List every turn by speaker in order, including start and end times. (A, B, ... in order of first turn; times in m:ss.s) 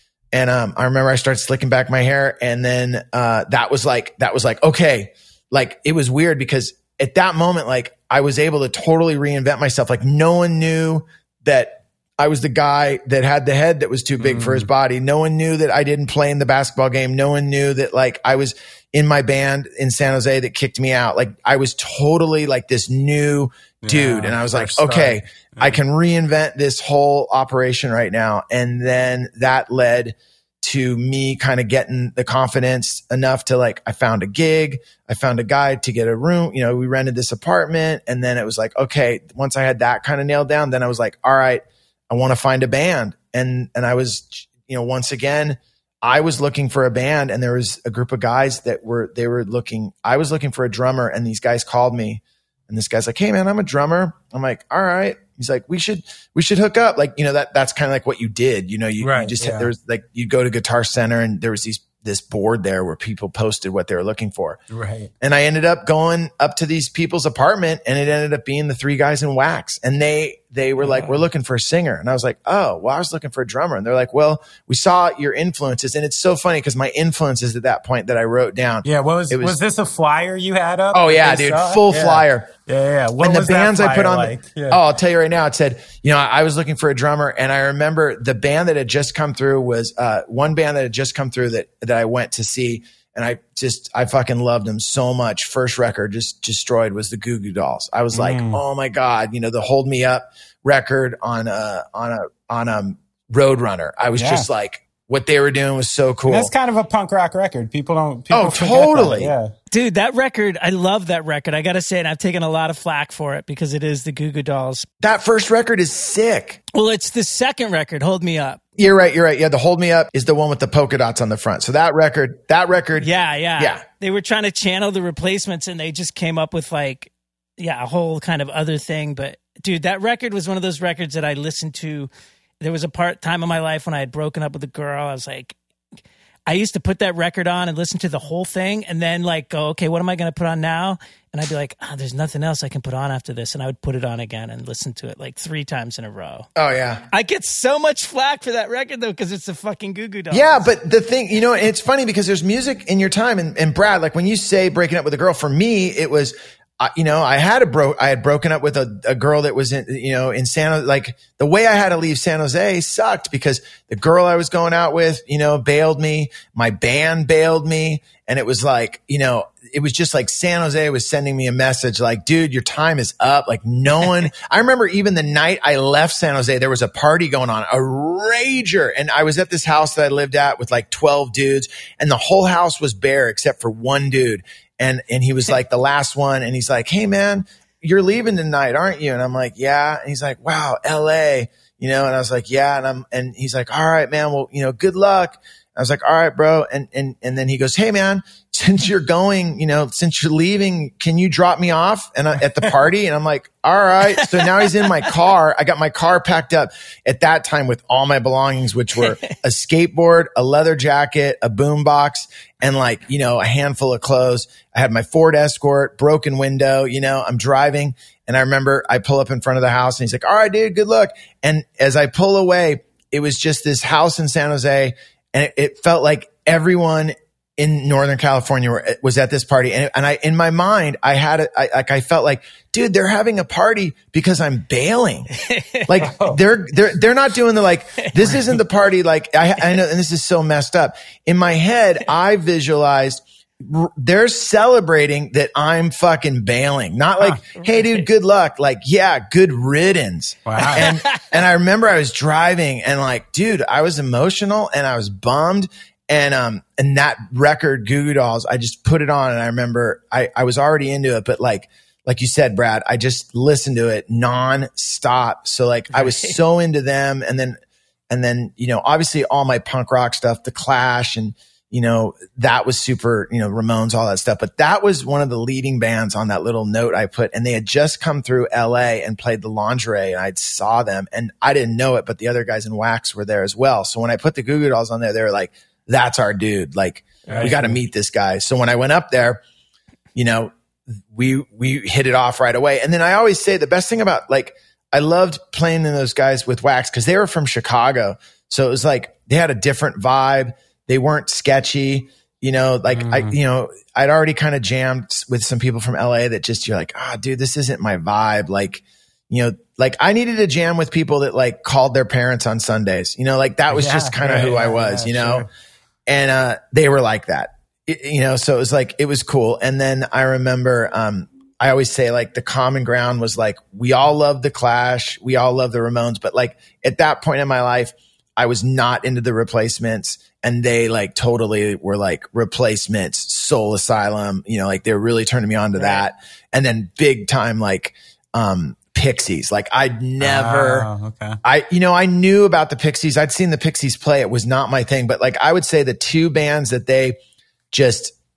0:00.3-1:04.6 A
0:14.2-0:14.7 B
0:23.8-0:25.8 B
0:59.0-0:59.7 B
1:04.7-1:05.1 B
1:05.2-1:19.6 A
1:10.8-1:11.2 C
1:18.8-1:24.8 B
1:20.9-1:22.5 A
1:23.2-1:46.5 A
1:38.1-1:38.6 B
1:44.2-1:44.5 B
1:46.3-1:49.5 B
1:48.3-1:49.3 A
1:49.7-1:54.9 C
1:55.0-1:56.6 A
1:56.7-1:58.6 C
1:58.8-2:03.1 A
2:03.0-2:15.6 C
2:03.6-2:03.8 A
2:16.5-2:26.5 C
2:26.6-2:27.0 A
2:27.1-2:30.7 C
2:30.3-3:55.3 A
3:24.2-3:24.8 C
3:55.4-3:56.0 C
3:55.9-4:27.6 A
3:56.0-3:56.4 B
4:10.5-4:10.9 B
4:10.8-4:11.2 C
4:28.1-4:49.4 A
4:47.3-4:47.5 C
4:47.3-4:47.8 B
4:50.2-4:50.5 A
4:51.1-5:15.5 A
5:03.0-5:03.4 B
5:13.7-5:15.5 B
5:16.1-5:40.9 A
5:40.2-5:41.4 B
5:41.4-5:47.2 A
5:47.7-5:48.1 A